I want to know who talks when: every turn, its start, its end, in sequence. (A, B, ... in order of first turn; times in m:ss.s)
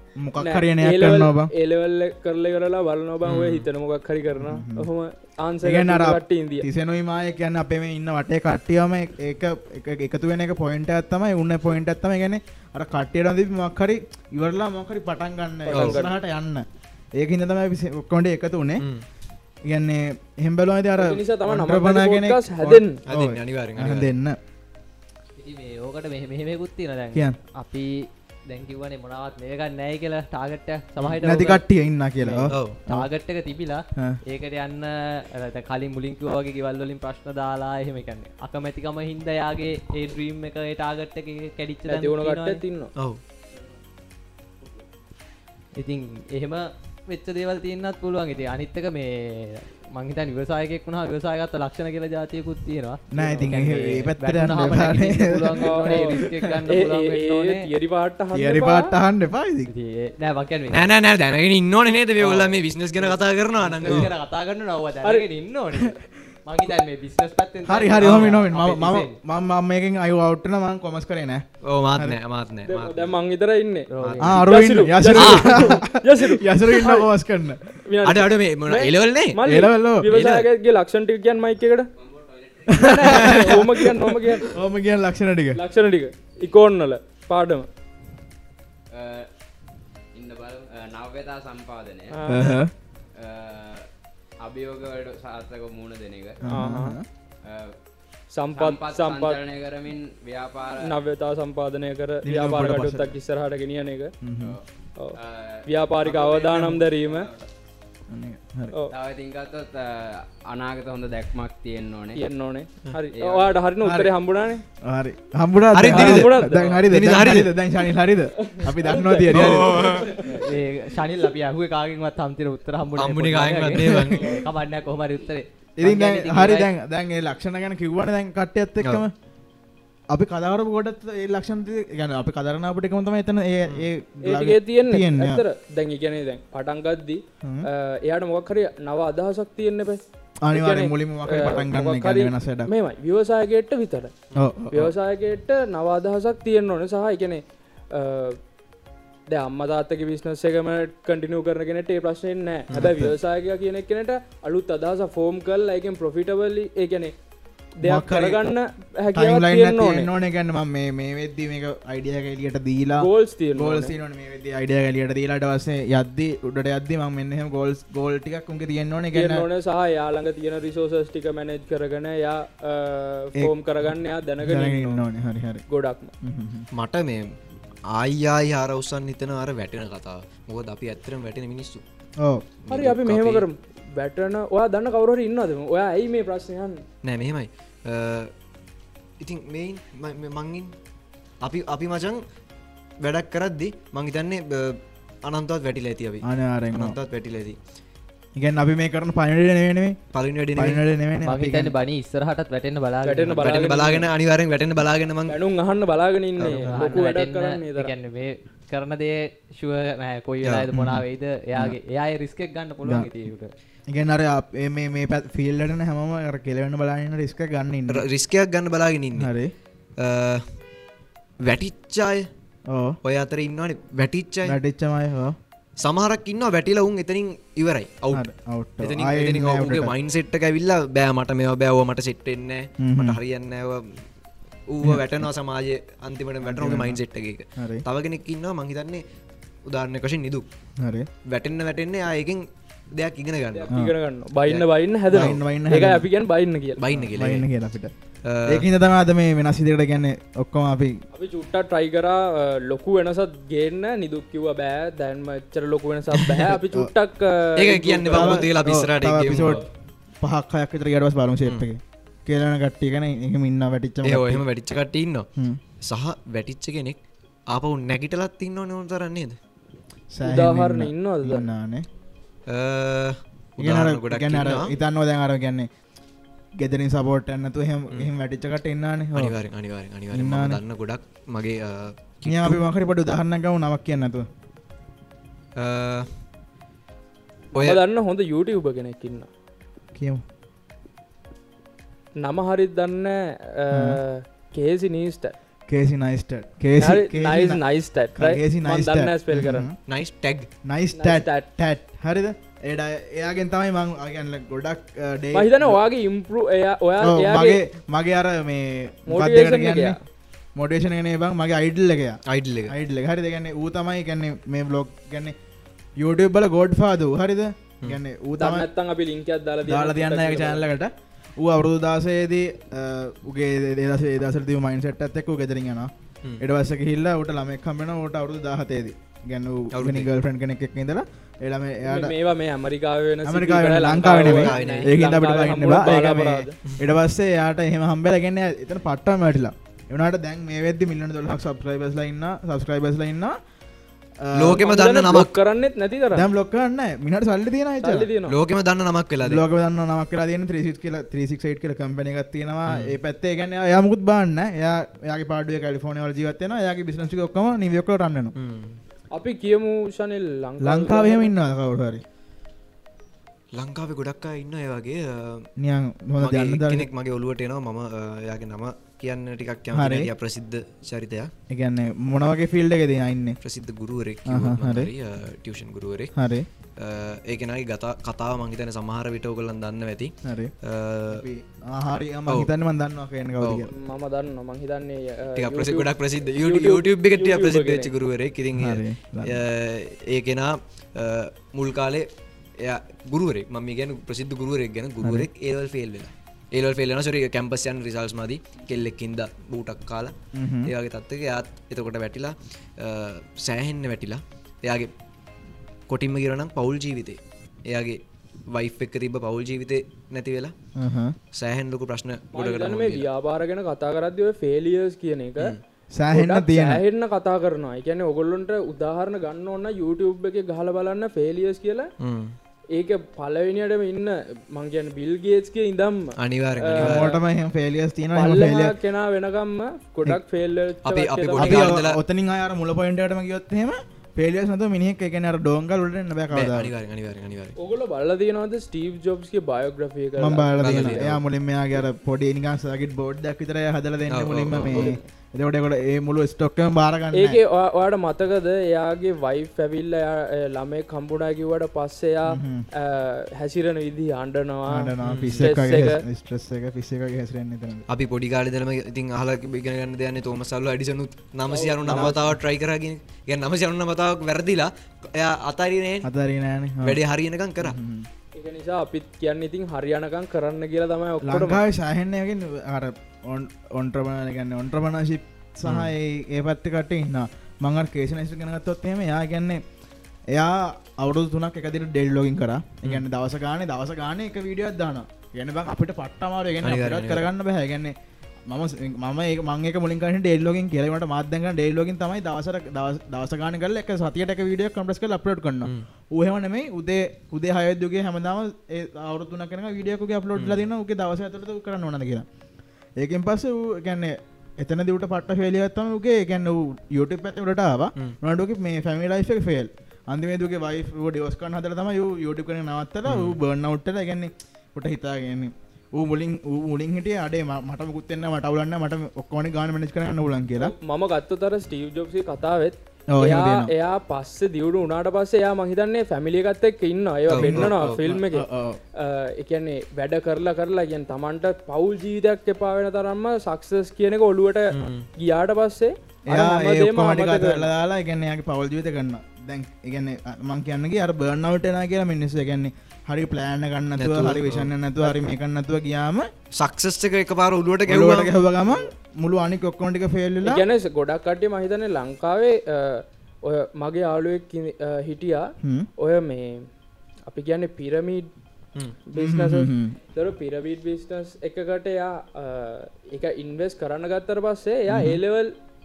0:00.2-0:01.5 A
0:00.4-0:06.7 B
0:03.2-0:03.7 C
0:04.4-0:04.9 A
0:05.6-0:16.6 A
0:15.6-0:16.1 B
0:15.7-0:16.0 C
0:17.2-0:18.9 A
0:18.8-0:19.0 C
0:19.7-0:24.4 A
0:21.0-0:23.0 B
0:23.1-0:24.1 C
0:25.4-0:31.6 D
0:31.2-0:33.1 A
0:32.2-0:42.6 D
0:32.5-0:32.8 C
0:34.0-0:34.2 A
0:41.9-0:42.9 B
0:45.7-0:57.7 D
0:53.1-0:56.6 A
0:53.1-0:53.6 B
0:55.6-0:58.9 B
0:58.3-0:59.7 A
0:59.7-1:00.9 D
1:00.7-1:04.1 C
1:02.2-1:09.2 D
1:07.6-1:11.4 A
1:08.0-1:08.3 C
1:11.6-1:13.1 C
1:12.6-1:17.1 B
1:13.9-1:14.4 D
1:14.0-1:14.3 C
1:14.2-1:17.8 A
1:15.2-1:15.7 C
1:17.8-1:21.9 B
1:18.0-1:19.4 C
1:19.4-1:20.1 A
1:20.1-1:20.5 C
1:22.0-1:22.9 E
1:22.7-1:23.8 A
1:22.8-1:24.5 B
1:24.5-1:25.6 A
1:25.5-1:27.6 B
1:28.9-1:29.3 E
1:30.1-1:32.2 E
1:32.1-1:32.6 B
1:32.3-1:32.7 A
1:33.2-1:33.9 E
1:34.4-1:36.4 E
1:36.4-1:37.0 A
1:36.5-1:37.0 B
1:37.4-1:37.7 E
1:38.3-1:39.4 B
1:38.6-1:40.9 E
1:40.8-1:44.1 B
1:42.2-1:43.2 A
1:44.2-1:44.6 A
1:45.0-1:47.3 B
1:45.2-1:47.5 E
1:46.4-1:46.8 A
1:48.1-1:48.7 A
1:48.9-1:52.2 E
1:52.1-1:54.6 B
1:53.2-1:53.6 E
1:53.8-1:54.1 A
1:54.8-2:00.0 A
1:55.7-1:57.6 C
1:55.8-1:56.8 B
1:56.5-1:56.8 E
1:58.4-2:00.2 B
1:59.3-2:00.1 C
2:00.2-2:06.7 D
2:02.9-2:04.4 C
2:05.8-2:09.1 A
2:10.1-2:15.4 A
2:14.2-2:24.1 B
2:20.4-2:22.7 A
2:24.3-2:24.9 A
2:24.7-2:28.4 B
2:29.3-2:37.1 B
2:32.7-2:33.1 A
2:37.8-2:40.1 B
2:37.8-2:38.4 A
2:39.1-2:49.5 A
2:43.0-2:43.9 B
2:49.1-2:55.1 B
2:54.4-2:55.6 A
2:55.7-2:56.1 B
2:56.2-2:56.7 A
2:56.7-2:57.2 C
2:57.9-3:01.8 C
3:02.6-3:03.4 C
3:02.7-3:06.8 B
3:07.0-3:08.3 C
3:09.2-3:10.7 C
3:11.4-3:12.2 C
3:13.0-3:17.6 C
3:16.2-3:17.0 A
3:18.4-3:20.0 A
3:20.1-3:20.8 C
3:20.5-3:21.7 A
3:21.2-3:23.8 D
3:23.0-3:24.1 B
3:23.4-3:25.4 C
3:25.3-3:27.9 B
3:26.4-3:33.5 D
3:26.4-3:27.0 A
3:30.7-3:31.8 A
3:32.8-3:33.1 A
3:33.9-3:38.0 A
3:37.9-3:39.3 C
3:39.1-3:39.5 A
3:40.0-3:40.6 C
3:41.4-3:42.3 C
3:42.7-3:43.0 A
3:43.0-3:44.6 C
3:44.4-3:45.3 A
3:45.8-3:48.2 C
3:48.1-3:49.9 A
3:48.8-3:54.1 C
3:52.8-3:53.2 A
3:54.7-3:59.0 C
3:56.4-3:57.0 A
3:57.6-3:57.8 A
3:59.7-4:00.4 C
4:00.8-4:01.1 A
4:01.3-4:02.4 C
4:02.9-4:03.7 C
4:03.5-4:06.8 B
4:04.5-4:05.4 C
4:05.1-4:06.0 A
4:06.8-4:07.5 C
4:06.9-4:07.9 A
4:08.2-4:08.7 C
4:08.4-4:11.0 A
4:11.1-4:18.4 B
4:17.6-4:19.6 C
4:18.1-4:19.6 A
4:20.2-4:24.4 A
4:24.0-4:25.3 C
4:25.8-4:29.4 C
4:30.1-4:31.8 A
4:30.2-4:31.5 B
4:32.5-4:34.7 C
4:33.6-4:35.7 A
4:36.6-4:39.4 A
4:39.1-4:42.6 C
4:40.1-4:40.6 A
4:42.2-4:44.2 A
4:45.6-4:46.2 C
4:47.5-4:49.3 B
4:47.5-4:47.8 C
4:49.9-4:50.2 A
4:52.2-4:55.3 B
4:53.7-4:54.0 A
4:55.7-4:59.8 A
4:56.8-4:59.7 B
4:59.9-5:00.5 C
5:00.6-5:05.8 A
5:00.9-5:01.5 B
5:05.3-5:07.6 B
5:07.0-5:10.0 A
5:09.1-5:10.0 B
5:10.6-5:15.3 A
5:12.3-5:12.7 C
5:16.0-5:18.7 A
5:18.4-5:20.6 B
5:19.6-5:32.1 A
5:29.7-5:30.1 C
5:31.8-5:36.6 B
5:33.2-5:43.4 A
5:34.0-5:34.9 C
5:44.2-5:44.6 A
5:44.3-5:45.3 C
5:44.6-5:46.3 B
5:46.1-5:48.1 A
5:47.8-5:48.4 B
5:48.3-5:49.4 C
5:49.2-5:58.3 A
5:52.7-5:52.9 C
5:58.4-5:58.8 C
5:59.1-6:01.3 B
6:00.6-6:02.0 A
6:03.5-6:05.5 C
6:05.6-6:06.9 A
6:06.2-6:11.3 C
6:09.7-6:10.1 A
6:11.5-6:13.4 A
6:13.4-6:16.1 C
6:14.3-6:14.9 A
6:16.1-6:16.5 A
6:16.8-6:21.2 C
6:20.2-6:20.5 A
6:21.1-6:23.7 A
6:23.4-6:23.7 C
6:23.7-6:27.9 B
6:25.4-6:32.0 C
6:28.6-6:29.4 A
6:32.6-6:44.9 C
6:35.0-6:35.3 A
6:40.3-6:40.7 A
6:45.9-6:48.0 C
6:48.5-6:50.5 C
6:50.8-6:51.2 A
6:51.3-6:53.1 C
6:52.3-6:55.6 B
6:55.9-6:56.8 A
6:56.1-7:01.9 B
7:02.0-7:02.4 C
7:02.7-7:07.2 B
7:06.2-7:07.1 C
7:06.8-7:08.8 A
7:08.2-7:11.8 B
7:10.8-7:12.0 C
7:11.4-7:16.7 A
7:16.3-7:17.6 C
7:17.6-7:21.1 B
7:20.2-7:27.4 A
7:20.6-7:21.2 C
7:24.1-7:24.9 C
7:24.6-7:25.1 B
7:27.1-7:36.0 B
7:32.3-7:32.6 A
7:34.7-7:37.8 A
7:35.0-7:35.6 C
7:37.9-7:46.1 C
7:41.5-7:42.2 B
7:41.8-7:42.3 A
7:46.0-7:47.0 A
7:46.8-7:47.8 C
7:47.6-7:48.1 A
7:48.3-7:51.6 B
7:51.2-7:59.6 A
7:55.6-7:55.9 C
8:00.3-8:07.9 A
8:06.6-8:07.3 C
8:08.5-8:22.2 A
8:20.4-8:20.6 C
8:23.0-8:40.7 A
8:33.0-8:33.4 C
8:40.6-8:57.7 B
8:43.1-8:43.7 A
8:47.3-8:48.0 C
8:47.3-8:48.8 A
8:54.7-8:55.1 C
8:56.3-9:06.3 A
9:04.0-9:04.7 C
9:06.5-9:08.3 C
9:07.9-9:10.6 A
9:10.4-9:16.7 B
9:15.6-9:15.9 A
9:17.3-9:18.3 B
9:19.1-9:25.5 B
9:19.2-9:20.0 A
9:24.9-9:25.2 A